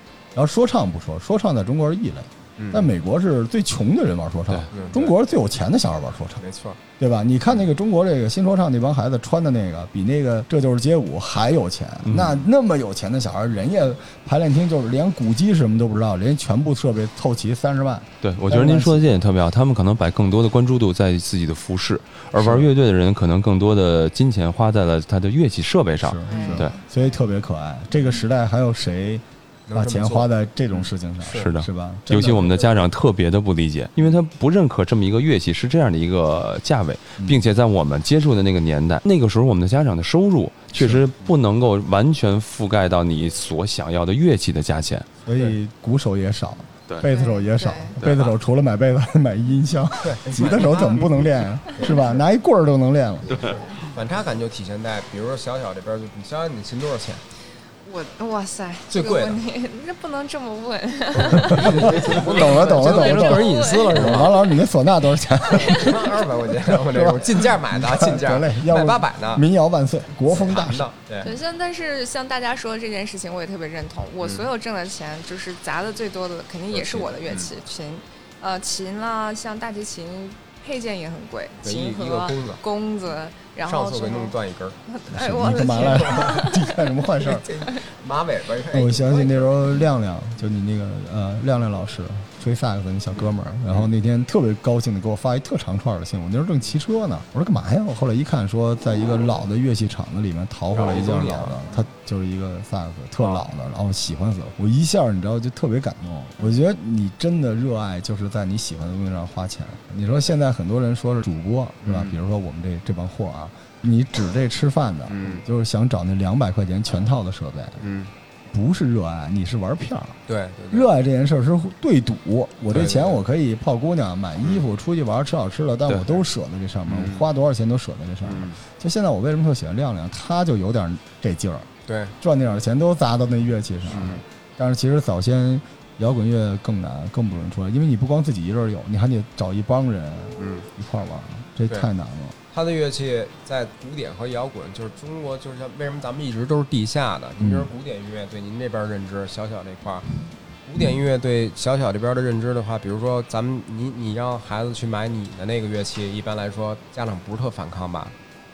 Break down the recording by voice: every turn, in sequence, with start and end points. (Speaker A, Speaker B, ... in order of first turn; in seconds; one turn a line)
Speaker A: 0.3-6.4
Speaker B: 2.6-2.9
Speaker B: 4.7-5.1
Speaker B: 6.4-6.8
Speaker A: 7.0-19.1
Speaker C: 12.1-12.4
Speaker C: 18.2-26.7
Speaker A: 22.4-22.7
Speaker A: 26.0-32.6
Speaker D: 26.3-26.8
Speaker B: 29.7-31.5
Speaker C: 31.3-45.1
Speaker A: 37.2-37.5
Speaker A: 40.8-41.1
Speaker A: 45.2-53.5
Speaker D: 47.1-48.0
Speaker C: 48.0-48.3
Speaker B: 50.0-52.2
Speaker B: 53.3-57.2
Speaker D: 57.9-64.4
Speaker B: 58.9-59.4
Speaker B: 61.1-64.4
Speaker A: 61.5-66.0
Speaker B: 65.5-69.4
Speaker A: 66.5-70.9
Speaker B: 70.3-71.3
Speaker D: 71.2-84.4
Speaker B: 76.7-77.5
Speaker B: 81.6-82.6
Speaker B: 83.7-84.8
Speaker D: 84.9-86.7
Speaker A: 85.1-87.5
Speaker B: 85.4-86.5
Speaker B: 87.2-89.7
Speaker A: 88.7-117.8
Speaker B: 100.7-101.6
Speaker B: 111.8-112.2
Speaker B: 115.1-115.4
Speaker B: 117.8-118.1
Speaker A: 118.5-120.2
Speaker B: 120.3-120.9
Speaker A: 120.7-142.4
Speaker B: 122.7-123.2
Speaker C: 125.9-126.2
Speaker B: 126.9-127.2
Speaker B: 128.2-128.6
Speaker B: 131.9-132.1
Speaker B: 133.9-134.2
Speaker B: 140.4-140.7
Speaker B: 142.5-150.1
Speaker A: 147.4-147.7
Speaker B: 150.6-158.2